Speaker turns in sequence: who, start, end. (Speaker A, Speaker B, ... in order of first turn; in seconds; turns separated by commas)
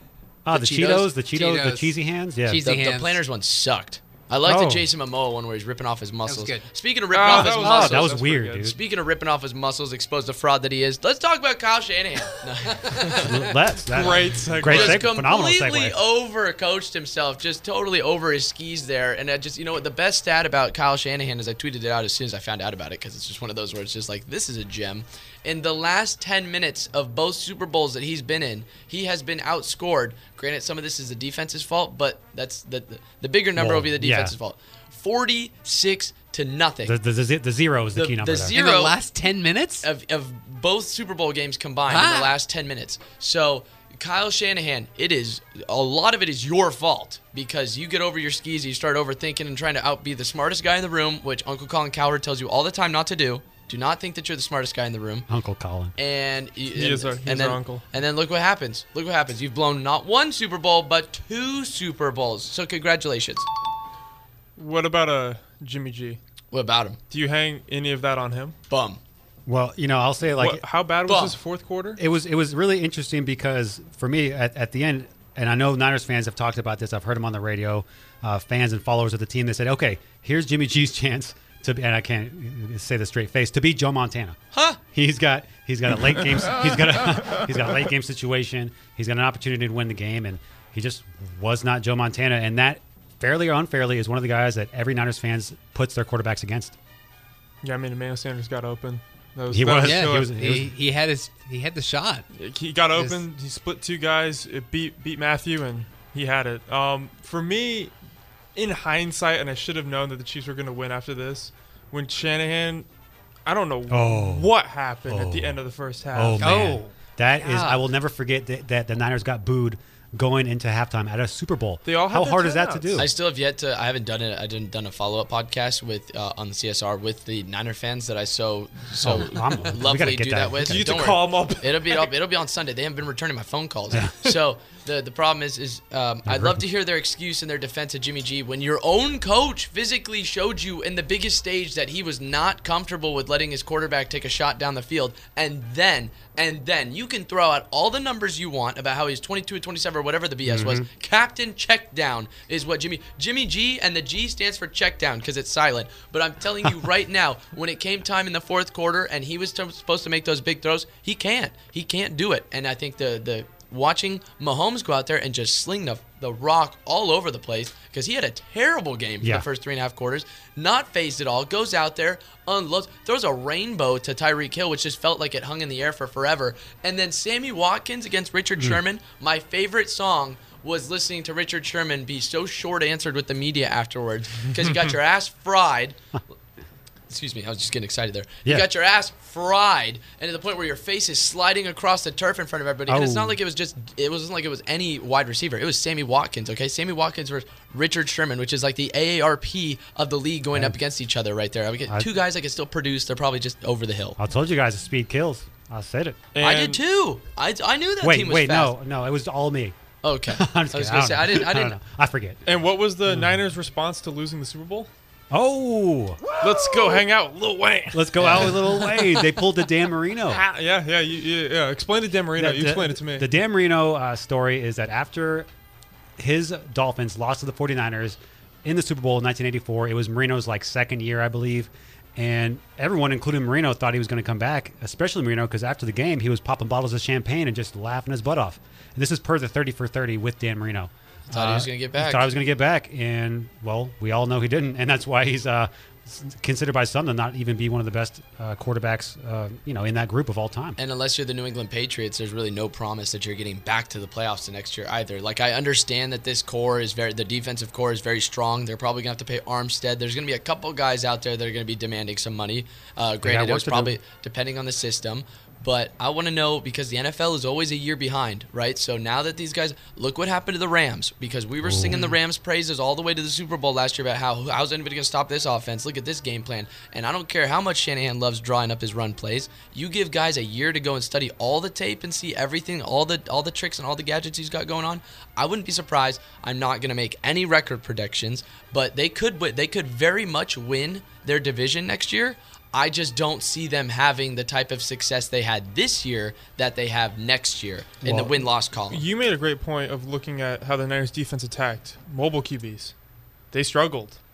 Speaker A: 0.4-2.6, Speaker B: 0.5-1.1, Speaker C: 1.3-3.2, Speaker B: 2.6-13.3, Speaker A: 4.4-4.9, Speaker C: 6.2-6.7, Speaker D: 7.1-8.7, Speaker A: 7.2-8.8, Speaker A: 13.2-16.0, Speaker D: 13.8-15.0, Speaker B: 14.6-37.0, Speaker A: 33.5-34.4, Speaker A: 36.8-38.5, Speaker B: 37.9-39.0, Speaker C: 38.5-39.9, Speaker B: 39.8-55.3, Speaker C: 41.9-42.3, Speaker A: 55.3-55.9, Speaker B: 56.0-63.5, Speaker D: 56.7-57.8, Speaker D: 64.6-66.2, Speaker B: 66.5-67.0, Speaker D: 67.1-68.5, Speaker B: 68.7-69.0, Speaker A: 69.5-70.6, Speaker D: 70.3-72.0, Speaker B: 71.1-71.4, Speaker A: 72.0-96.7, Speaker B: 84.5-84.8, Speaker D: 97.6-100.3, Speaker A: 99.5-100.7, Speaker C: 99.8-102.3, Speaker D: 102.3-107.9, Speaker C: 102.9-103.2, Speaker D: 108.5-112.9, Speaker D: 113.5-116.6, Speaker A: 113.9-114.5, Speaker A: 115.1-115.6, Speaker A: 116.1-123.1, Speaker C: 116.4-117.8, Speaker D: 121.8-123.0, Speaker B: 122.9-186.0, Speaker A: 129.0-130.9, Speaker D: 130.6-132.1, Speaker A: 136.2-136.6, Speaker A: 150.4-150.9, Speaker D: 184.6-184.9, Speaker B: 187.1-204.2, Speaker A: 192.9-193.4, Speaker A: 204.2-206.2, Speaker D: 206.3-206.8, Speaker B: 206.4-208.7, Speaker A: 208.0-209.8, Speaker B: 210.0-211.8, Speaker A: 210.3-212.4, Speaker D: 212.4-214.9, Speaker A: 215.3-216.2, Speaker D: 216.4-219.4, Speaker A: 217.9-220.4, Speaker D: 220.3-223.3, Speaker A: 222.3-225.5, Speaker A: 226.2-250.8, Speaker B: 241.3-242.3, Speaker B: 250.8-299.0, Speaker A: 263.2-264.0, Speaker A: 271.6-272.1, Speaker A: 298.0-298.3, Speaker D: 298.9-302.9, Speaker D: 303.5-304.2